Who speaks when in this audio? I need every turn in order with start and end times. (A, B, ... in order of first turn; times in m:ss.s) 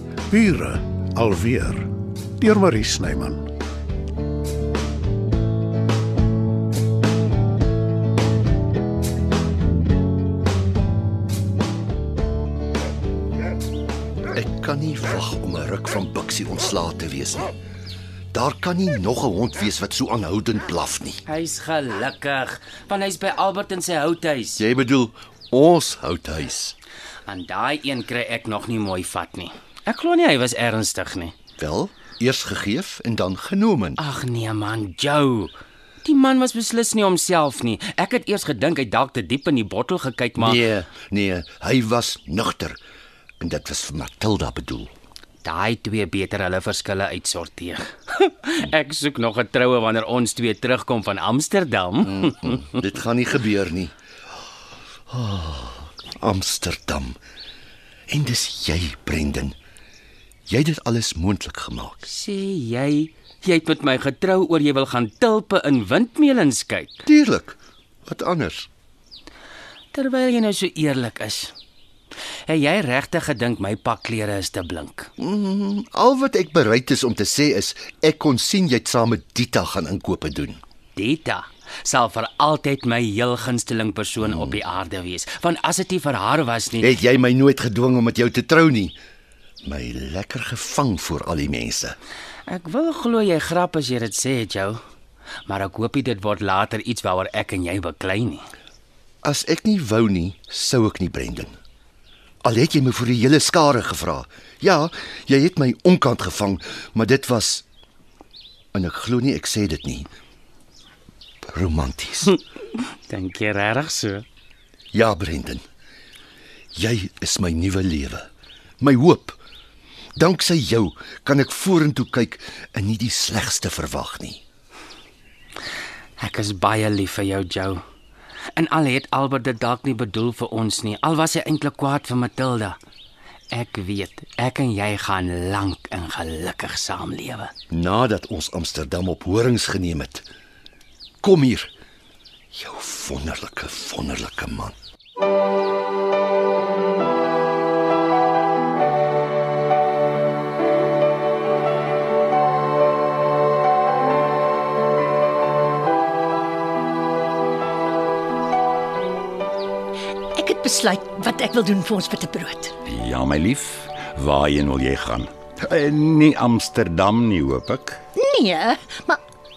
0:00.3-0:03.5 A
0:14.4-0:17.5 B
0:18.3-0:21.2 B
0:21.3-0:24.6 C
0:24.6-0:26.7 B
0:27.3-0:31.3 C
0:31.6-0:34.0 B
0:34.0-0:35.5 C
0:36.0-0:40.6 C
0:40.4-0:42.8 B
0:43.4-0:44.9 B
0:45.4-0:52.8 C
0:52.0-0:53.9 B
0:55.1-0:57.2 B
0:58.1-0:59.6 B
1:00.5-1:02.0 B
1:02.0-1:07.0 C
1:07.1-1:08.7 B
1:09.9-1:11.5 C
1:12.5-1:15.1 C
1:15.2-1:20.6 B
1:21.0-1:27.0 C
1:24.2-1:24.6 B
1:26.8-1:29.0 B
1:29.6-1:32.0 B
1:32.5-1:34.8 C
1:35.5-1:38.5 C
1:39.2-1:41.6 B
1:42.4-1:47.6 B
1:48.7-1:50.1 B
1:51.5-1:52.3 B
1:52.8-1:54.2 C
1:54.9-1:55.6 B
1:56.8-1:58.3 B
1:58.8-1:59.4 B
2:00.2-2:04.4 B
2:06.2-2:07.8 C
2:08.6-2:12.8 C
2:13.5-2:17.5 C
2:17.7-2:20.2 B
2:21.2-2:21.7 B
2:22.5-2:24.7 B
2:40.3-2:42.7 D
2:42.9-2:48.0 E
2:48.2-2:49.2 D